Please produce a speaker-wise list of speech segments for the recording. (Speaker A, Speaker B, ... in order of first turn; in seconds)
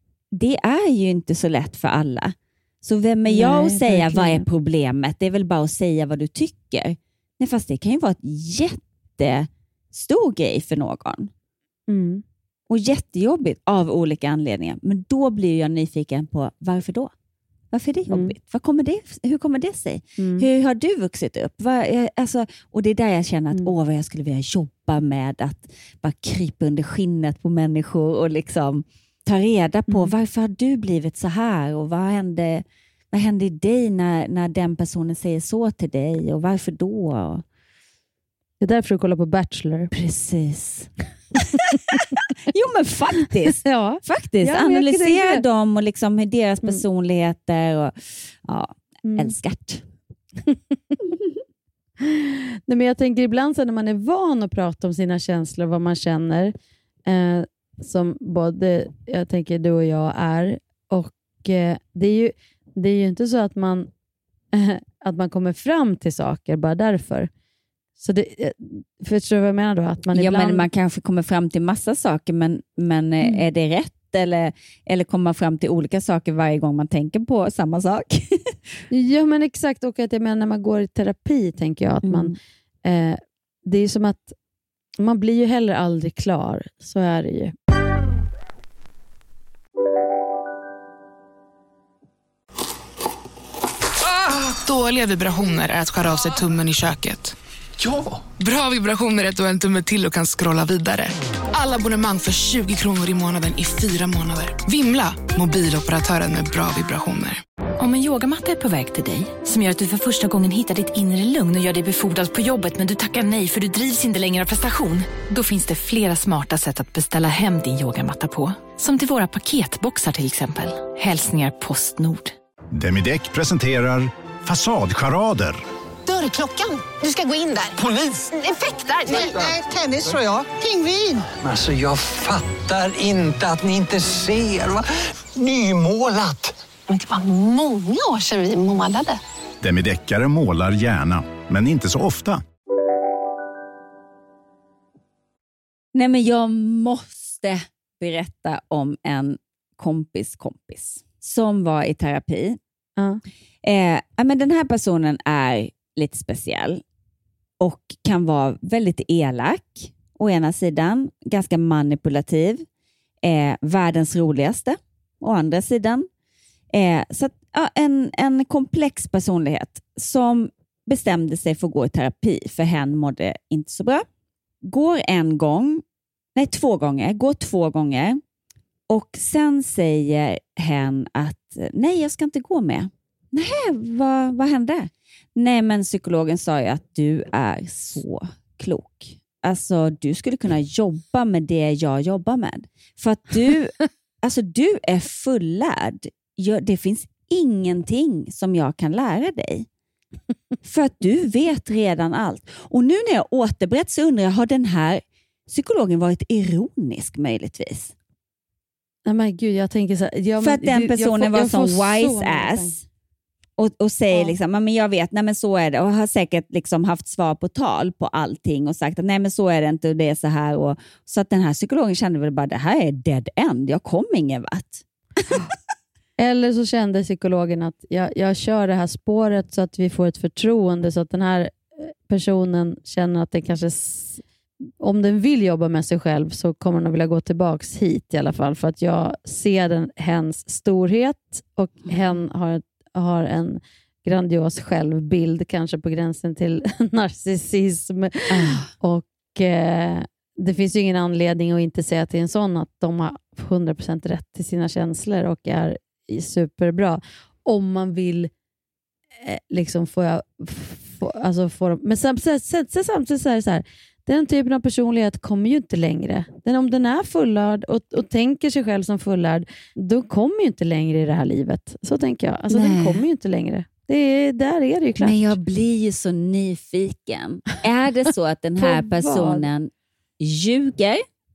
Speaker A: 0.3-11.3, 12.7-17.1, 17.7-37.4, 39.9-40.9, 41.5-49.8, 70.1-78.5, 82.0-82.3, 145.9-152.6, 153.6-156.8, 157.6-162.6, 163.2-166.1, 166.7-174.0, 174.6-175.8, 176.3-178.2, 178.9-199.7, 200.6-207.9, 210.4-212.8, 213.6-225.4, 248.3-248.7, 272.5-273.0, 275.0-281.0
Speaker B: 3.2-4.5, 11.9-12.2, 18.1-18.3, 20.2-20.5, 29.9-30.1, 38.6-39.9, 43.5-45.4, 49.0-49.3, 50.4-51.2, 52.0-56.5, 57.0-63.9, 64.5-67.3, 68.0-70.7, 78.9-84.3, 85.0-87.5, 209.0-212.7, 226.2-234.2, 234.8-258.3, 259.2-275.3, 278.6-279.4
Speaker C: 94.0-97.3, 98.4-107.4
Speaker D: 107.8-122.3
Speaker E: 122.7-125.6, 139.6-142.4
Speaker F: 126.0-131.2, 136.9-139.2
Speaker G: 127.9-128.1, 131.3-134.8, 135.3-136.5